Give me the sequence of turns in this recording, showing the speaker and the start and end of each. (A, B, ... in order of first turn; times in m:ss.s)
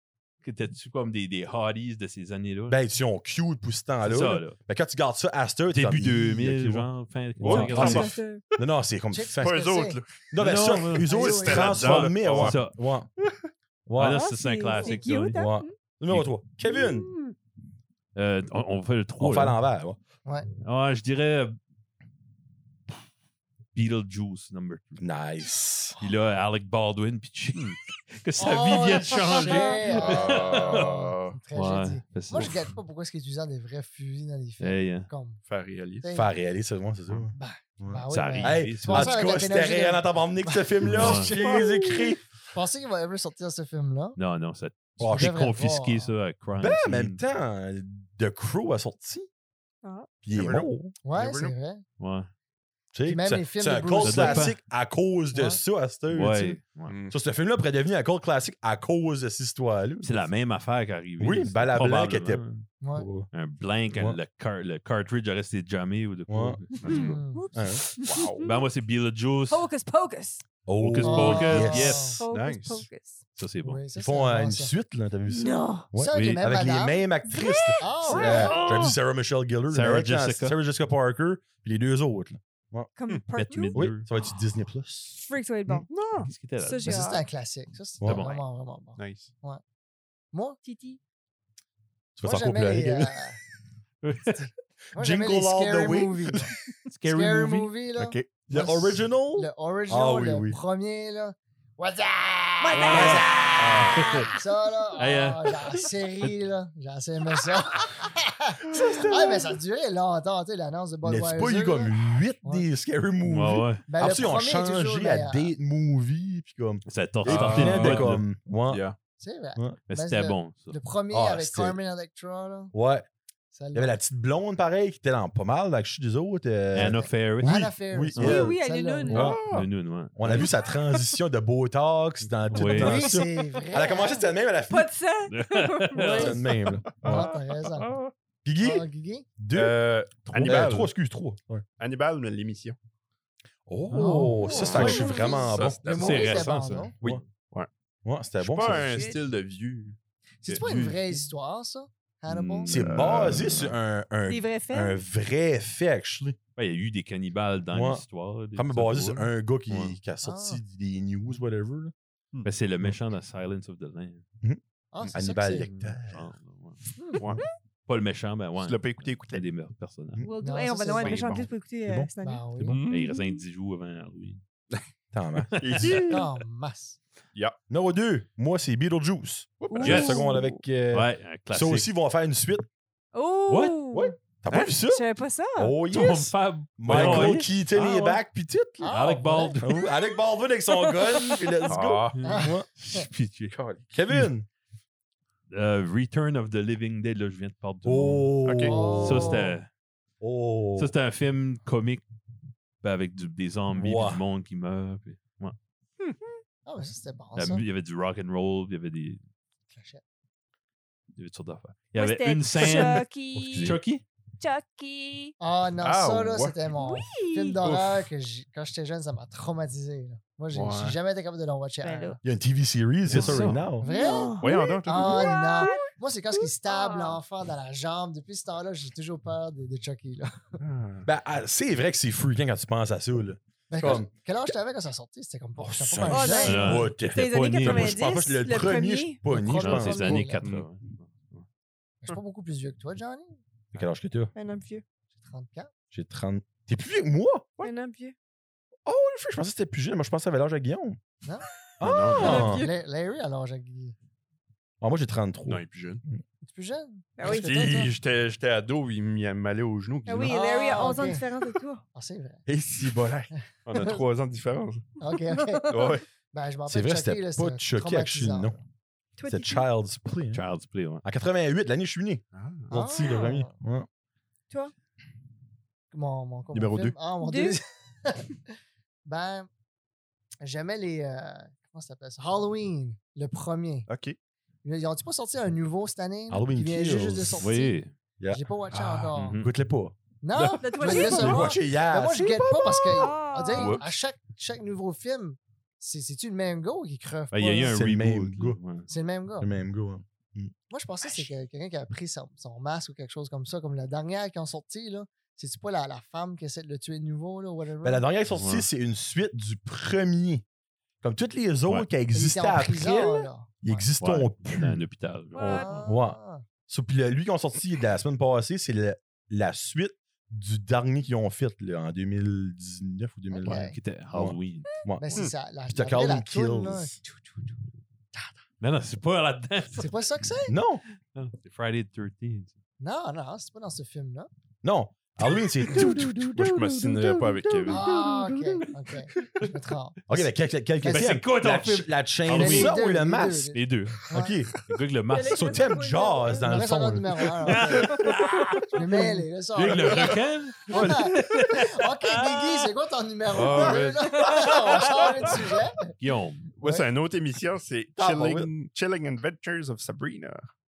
0:00.4-0:02.8 A
0:02.7-0:06.9 B
0:04.0-0:04.6 A
0:05.7-0:08.1 A
0:07.4-0:08.2 C
0:07.4-0:09.6 B
0:07.5-0:08.4 D
0:09.1-0:10.0 E
0:09.4-0:12.6 C
0:10.3-0:13.1 B
0:10.4-0:12.7 A
0:11.0-0:11.8 E
0:13.2-0:13.5 C
0:13.9-0:14.3 B
0:14.0-0:15.4 A
0:14.0-0:15.7 D
0:14.7-0:15.1 E
0:15.3-0:17.1 B
0:16.6-0:17.3 D
0:18.1-0:19.6 A
0:19.2-0:20.0 B
0:20.6-0:21.6 A
0:23.7-0:25.1 A
0:25.0-0:26.0 B
0:26.0-0:30.9 A
0:28.4-0:35.4 E
0:29.3-0:29.9 D
0:29.9-0:31.4 C
0:31.5-0:32.7 A
0:34.6-0:35.1 A
0:35.4-0:36.0 C
0:36.0-0:36.3 E
0:36.1-0:42.2 B
0:37.3-0:40.7 E
0:38.1-0:39.3 A
0:40.8-0:41.4 A
0:41.1-0:41.6 C
0:42.5-0:44.2 E
0:44.2-0:47.2 A
0:45.0-0:45.4 B
0:45.1-0:46.1 E
0:46.6-0:49.3 B
0:49.8-0:50.1 D
0:50.2-0:50.9 B
0:50.3-0:51.5 C
0:51.0-0:51.8 E
0:52.0-0:52.3 A
0:52.9-1:00.2 B
0:53.0-0:54.5 E
0:54.0-0:54.6 A
0:55.3-0:55.6 E
0:56.1-0:56.9 A
0:56.8-0:57.2 C
1:00.0-1:02.6 A
1:01.2-1:02.4 B
1:02.8-1:03.1 E
1:02.9-1:03.3 B
1:03.3-1:07.1 A
1:06.3-1:06.6 B
1:06.8-1:07.2 C
1:06.8-1:08.6 D
1:06.9-1:07.4 E
1:07.5-1:07.8 B
1:08.0-1:08.5 C
1:08.4-1:09.6 A
1:09.5-1:10.4 D
1:10.6-1:12.1 B
1:10.8-1:12.2 A
1:11.0-1:12.2 E
1:11.4-1:13.2 D
1:12.3-1:12.9 C
1:13.4-1:13.8 A
1:13.6-1:14.7 E
1:14.0-1:22.9 B
1:15.3-1:15.9 D
1:15.9-1:17.0 E
1:16.1-1:16.4 A
1:17.3-1:18.8 D
1:17.8-1:18.6 E
1:18.3-1:19.0 A
1:19.7-1:20.6 A
1:22.9-1:23.8 D
1:23.3-1:24.1 A
1:23.7-1:25.8 B
1:25.1-1:27.2 D
1:26.2-1:27.2 A
1:26.8-1:29.6 E
1:28.0-1:28.4 A
1:29.0-1:29.3 C
1:30.3-1:30.6 E
1:30.6-1:31.0 D
1:32.2-1:33.2 B
1:32.2-1:33.4 E
1:34.0-1:34.4 A
1:34.2-1:36.5 E
1:34.9-1:36.4 B
1:36.8-1:37.7 A
1:37.0-1:52.6 E
1:38.0-1:40.6 B
1:42.6-1:44.2 D
1:42.7-1:44.3 A
1:42.9-1:44.1 B
1:45.0-1:46.3 A
1:48.6-1:49.6 B
1:51.0-1:58.8 B
1:53.2-1:53.8 A
1:53.9-1:55.5 E
1:56.8-1:58.2 A
1:57.2-1:59.0 C
1:59.2-2:02.7 E
1:59.9-2:00.8 A
2:01.1-2:01.8 B
2:02.7-2:03.1 B
2:03.5-2:04.0 E
2:03.7-2:08.6 B
2:06.7-2:08.5 A
2:06.9-2:09.4 E
2:08.2-2:09.3 D
2:09.1-2:09.4 B
2:09.1-2:10.5 A
2:09.1-2:09.7 C
2:10.2-2:14.9 B
2:12.5-2:13.1 A
2:12.6-2:14.2 E
2:14.7-2:16.3 D
2:15.3-2:16.4 A
2:15.9-2:16.4 E
2:16.0-2:17.3 B
2:16.8-2:18.1 C
2:17.0-2:17.9 E
2:18.4-2:18.8 B
2:18.6-2:19.3 E
2:19.4-2:19.8 B
2:19.5-2:20.9 C
2:20.3-2:20.8 A
2:20.4-2:21.6 B
2:21.8-2:22.8 C
2:23.7-2:25.8 B
2:23.9-2:24.3 A
2:23.9-2:26.9 E
2:24.5-2:25.5 D
2:24.5-2:27.7 C
2:25.8-2:27.1 A
2:28.0-2:29.1 B
2:28.4-2:30.0 C
2:28.7-2:29.2 D
2:30.4-2:32.7 E
2:30.5-2:31.2 C
2:32.3-2:33.5 A
2:32.7-2:36.4 B
2:32.7-2:33.8 C
2:34.2-2:35.0 D
2:36.6-2:40.0 A
2:37.7-2:38.0 B
2:38.5-2:41.9 B
2:40.2-2:40.6 E
2:42.4-2:44.2 A
2:44.9-2:45.7 E
2:45.1-2:46.3 B
2:45.6-2:46.8 A
2:47.0-2:47.2 E
2:47.2-2:47.4 C
2:47.9-2:50.2 A
2:48.6-2:49.4 C
2:50.2-2:52.5 D
2:50.4-2:51.3 E
2:51.0-2:51.5 C
2:51.8-2:52.8 B
2:52.2-2:52.8 E
2:52.6-2:53.1 C
2:52.9-2:54.4 A
2:53.1-2:53.4 D
2:55.1-2:56.0 B
2:55.5-2:56.0 A
2:55.6-2:56.3 C
2:56.1-2:57.0 E
2:57.7-3:02.6 B
2:59.6-3:00.5 C
2:59.7-3:00.4 D
2:59.8-3:00.2 A
3:00.9-3:01.9 A
3:03.1-3:04.2 D
3:03.5-3:03.8 A
3:03.9-3:08.9 B
3:04.5-3:04.8 C
3:04.8-3:05.8 D
3:05.9-3:08.2 A
3:06.9-3:07.4 C
3:08.8-3:09.6 E
3:08.9-3:09.8 A
3:09.6-3:12.7 B
3:10.9-3:11.7 D
3:11.7-3:12.2 C
3:12.1-3:13.6 A
3:12.2-3:13.1 E
3:13.5-3:13.8 C
3:13.9-3:14.5 B
3:15.5-3:18.3 A
3:17.8-3:19.4 B
3:18.4-3:18.8 C
3:18.6-3:19.6 E
3:19.0-3:19.7 A
3:20.2-3:20.9 B
3:20.8-3:22.0 A
3:22.8-3:25.5 A
3:23.7-3:24.2 B
3:26.6-3:27.6 E
3:27.4-3:29.2 A
3:29.7-3:30.0 E
3:31.2-3:34.0 A
3:31.9-3:33.8 D
3:32.7-3:32.9 C
3:33.4-3:33.8 B
3:34.4-3:35.3 D
3:35.4-3:42.2 E
3:35.8-3:36.6 C
3:36.7-3:37.6 D
3:37.6-3:38.1 C
3:40.5-3:41.0 C
3:41.8-3:42.2 D
3:42.2-3:43.9 B
3:43.1-3:43.5 C
3:43.1-3:43.6 A
3:43.8-3:50.4 E
3:43.8-3:45.9 D
3:44.4-3:45.8 C
3:46.6-3:47.2 D
3:50.6-3:51.1 C
3:51.0-3:54.1 B
3:53.7-3:56.7 E
3:55.6-4:00.3 B
3:56.1-3:59.2 D
3:56.4-3:58.0 A
3:59.3-4:00.4 E
3:59.6-4:01.0 A
4:02.0-4:03.4 E
4:03.7-4:04.3 B
4:04.3-4:04.8 D
4:05.1-4:05.7 E
4:05.9-4:07.5 B
4:07.6-4:08.1 D
4:08.8-4:11.0 B
4:11.8-4:12.7 B
4:11.8-4:12.5 A
4:12.2-4:12.7 D
4:12.2-4:13.9 E
4:14.8-4:16.2 B
4:15.5-4:16.0 C
4:16.4-4:17.9 E
4:17.2-4:17.8 D
4:17.2-4:20.4 C
4:20.0-4:21.8 D
4:20.2-4:21.2 E
4:20.3-4:20.7 B
4:21.9-4:22.4 E
4:22.5-4:24.9 C
4:23.3-4:24.0 E
4:25.0-4:25.7 E
4:25.3-4:26.0 D
4:25.7-4:26.0 C
4:26.3-4:28.6 E
4:26.7-4:28.6 B
4:29.2-4:29.6 D
4:29.3-4:30.4 B
4:30.3-4:31.0 A
4:31.0-4:33.9 B
4:32.3-4:32.7 C
4:32.7-4:33.5 E
4:35.9-4:38.4 E
4:36.5-4:37.0 C
4:37.2-4:37.6 D
4:39.0-4:39.5 E
4:40.4-4:43.9 E
4:43.9-4:44.2 C
4:44.6-4:47.8 E
4:46.3-4:47.5 B
4:47.4-4:47.9 A
4:48.3-4:49.4 E
4:48.7-4:49.1 C
4:49.1-4:49.5 A
4:49.4-4:49.9 B
4:50.2-4:57.8 E
4:50.6-4:51.6 D
4:50.7-4:53.1 B
4:52.9-4:53.8 D
4:53.5-4:53.8 C
4:57.3-4:58.9 A
4:57.6-4:58.6 B
4:58.9-4:59.5 E
4:59.4-5:00.5 B
5:00.7-5:08.0 E
5:07.8-5:10.4 B
5:08.3-5:08.7 A
5:11.0-5:14.8 B
5:12.1-5:13.8 E
5:14.0-5:15.7 A
5:15.3-5:15.8 D
5:15.4-5:16.4 E
5:15.8-5:27.0 B
5:23.3-5:23.8 E
5:23.4-5:24.7 A
5:25.0-5:27.2 E
5:28.6-5:29.9 A
5:29.8-5:30.6 E
5:30.5-5:30.8 B
5:31.1-5:32.5 A
5:32.8-5:34.3 E
5:34.6-5:38.1 B
5:35.7-5:37.8 C
5:37.7-5:40.2 E
5:40.1-5:43.6 B
5:40.8-5:41.2 E
5:40.8-5:42.8 A
5:42.3-5:44.4 E
5:43.5-5:44.0 A
5:44.1-5:44.5 B
5:44.6-5:45.7 A
5:45.1-5:46.5 D
5:45.3-5:47.7 B
5:46.4-5:48.0 E
5:47.4-5:52.7 A
5:48.7-5:55.9 E
5:53.3-5:55.4 C
5:54.2-5:55.3 A
5:56.0-5:56.5 A
5:56.6-6:00.5 C
5:56.6-5:56.9 E
5:58.0-5:58.5 B